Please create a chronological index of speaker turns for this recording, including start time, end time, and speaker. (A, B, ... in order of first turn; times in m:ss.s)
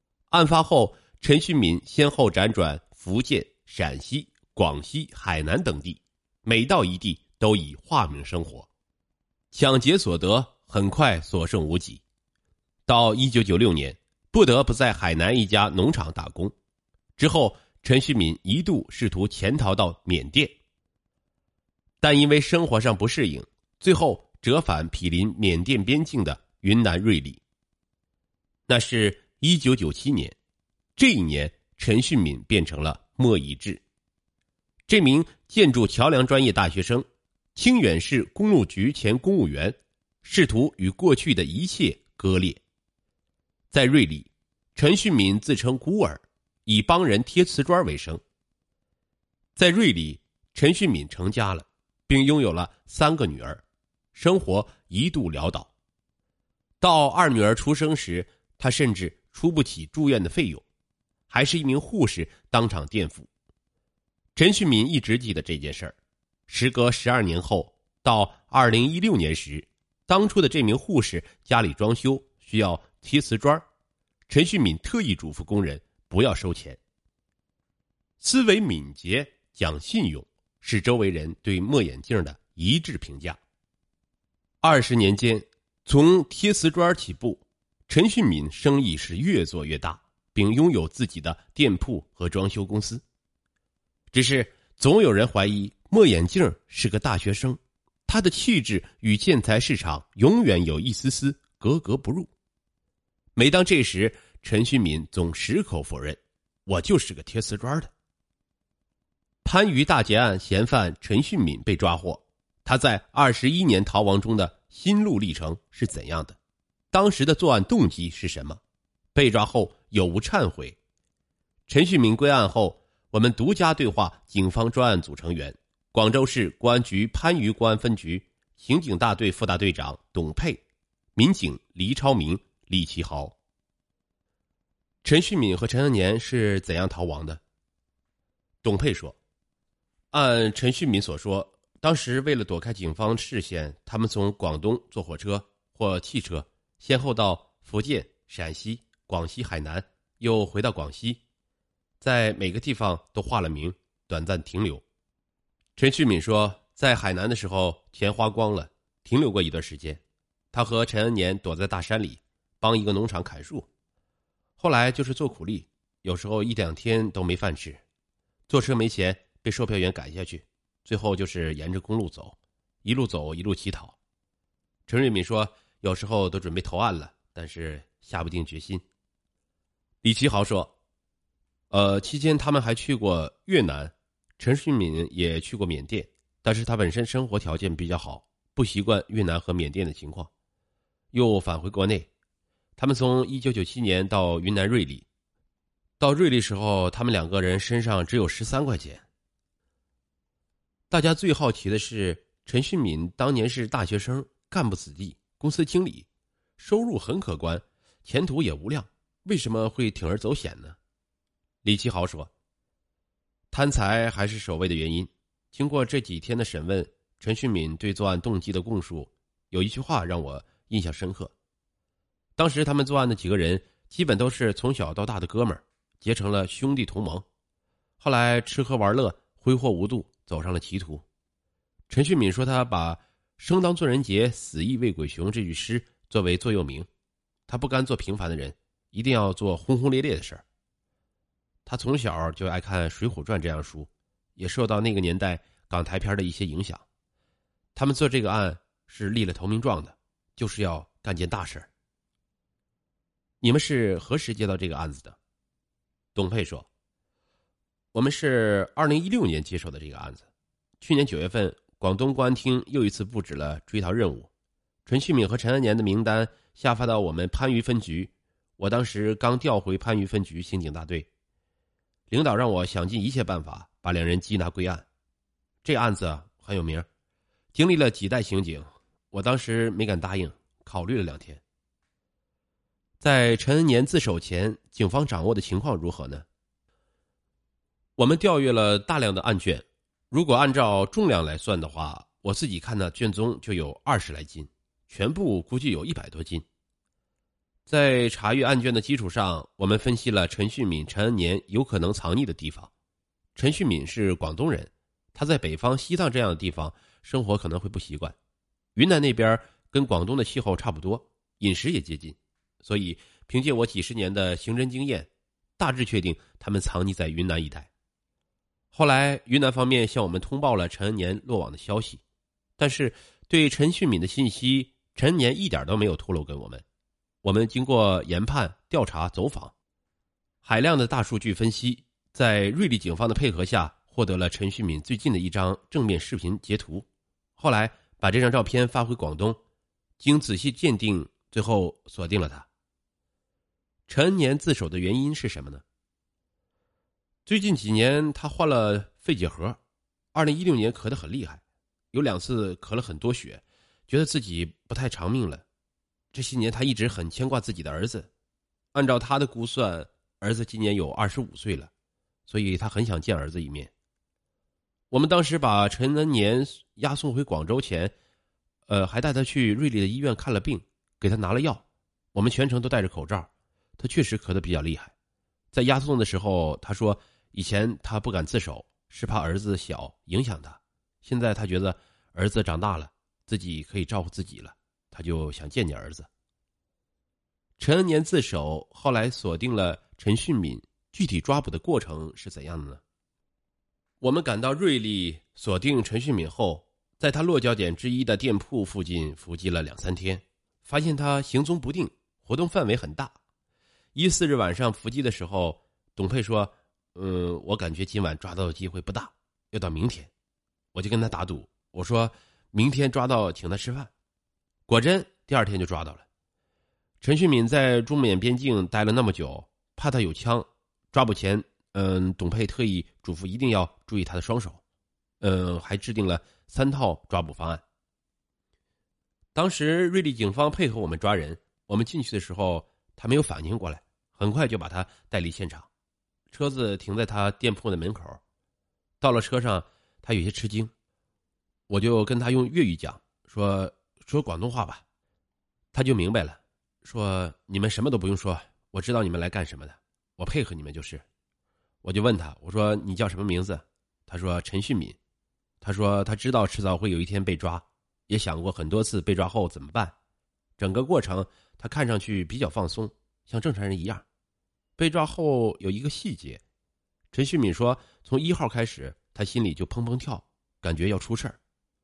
0:00.3-0:08.7 A
0:09.5-0:12.0 A
0:12.9-0:16.5 A
0:17.2-0:20.6 A
0:22.0-0:27.4 A
0:28.7-0:30.4 A
0:31.0-0:33.8 A
0:34.9-0:42.6 A
0:43.7-0:48.2 A
0:49.6-0:55.7 A
0:56.8-1:00.6 A
1:01.3-1:03.3 A
1:04.4-1:06.0 A
1:06.5-1:13.6 A
1:14.3-1:16.8 A
1:18.2-1:23.4 A
1:24.6-1:33.0 A
1:34.1-1:42.3 A
1:43.4-1:47.9 A
1:49.4-1:56.4 A
1:56.9-1:58.6 A
1:59.1-2:00.8 A
2:01.7-2:10.6 A
2:11.2-2:13.4 A
2:15.0-2:17.4 A
2:18.6-2:19.2 A
2:20.1-2:31.2 A
2:32.0-2:34.8 A
2:35.8-2:43.7 A
2:44.6-2:47.8 A
2:48.5-2:54.0 A
2:54.9-2:58.8 A
3:00.0-3:00.7 A
3:01.7-3:10.3 A
3:11.1-3:12.1 A
3:12.8-3:15.1 A
3:16.0-3:19.0 A
3:20.9-3:26.1 A
3:26.6-3:30.8 A
3:31.6-3:32.3 A
3:33.5-3:41.3 A
3:42.4-3:47.2 A
3:48.0-3:51.0 A
3:51.9-3:56.9 A
3:57.5-4:00.4 A
4:01.7-4:06.8 A
4:07.8-4:11.7 A
4:13.4-4:15.2 A
4:16.2-4:16.7 A
4:17.9-4:20.3 A
4:20.8-4:24.3 A
4:24.9-4:31.1 A
4:32.1-4:34.8 A
4:35.6-4:36.9 A
4:37.5-4:41.4 A
4:43.0-4:46.2 A
4:48.0-4:56.4 A
4:57.7-5:02.7 A
5:03.4-5:08.2 A
5:08.8-5:17.7 A
5:18.7-5:22.0 A
5:22.6-5:26.6 A
5:27.2-5:29.5 A
5:30.4-5:39.4 A
5:40.0-5:42.5 A
5:43.9-5:45.6 A
5:47.3-5:49.6 A
5:50.1-5:55.4 A
5:56.1-5:58.1 A
5:58.7-6:01.7 A
6:02.3-6:03.7 A
6:04.9-6:07.9 A
6:08.7-6:14.9 A
6:15.5-6:26.1 A
6:27.6-6:32.8 A
6:34.0-6:43.2 A
6:44.0-6:50.1 A
6:50.7-6:53.9 A
6:54.7-6:56.1 A
6:57.0-7:04.6 A
7:05.2-7:07.6 A
7:09.4-7:15.7 A
7:16.3-7:18.2 A
7:19.0-7:20.7 A
7:21.7-7:24.8 A
7:25.7-7:31.0 A
7:31.8-7:35.0 A
7:35.6-7:40.0 A
7:40.6-7:44.0 A
7:44.8-7:46.4 A
7:47.1-7:51.4 A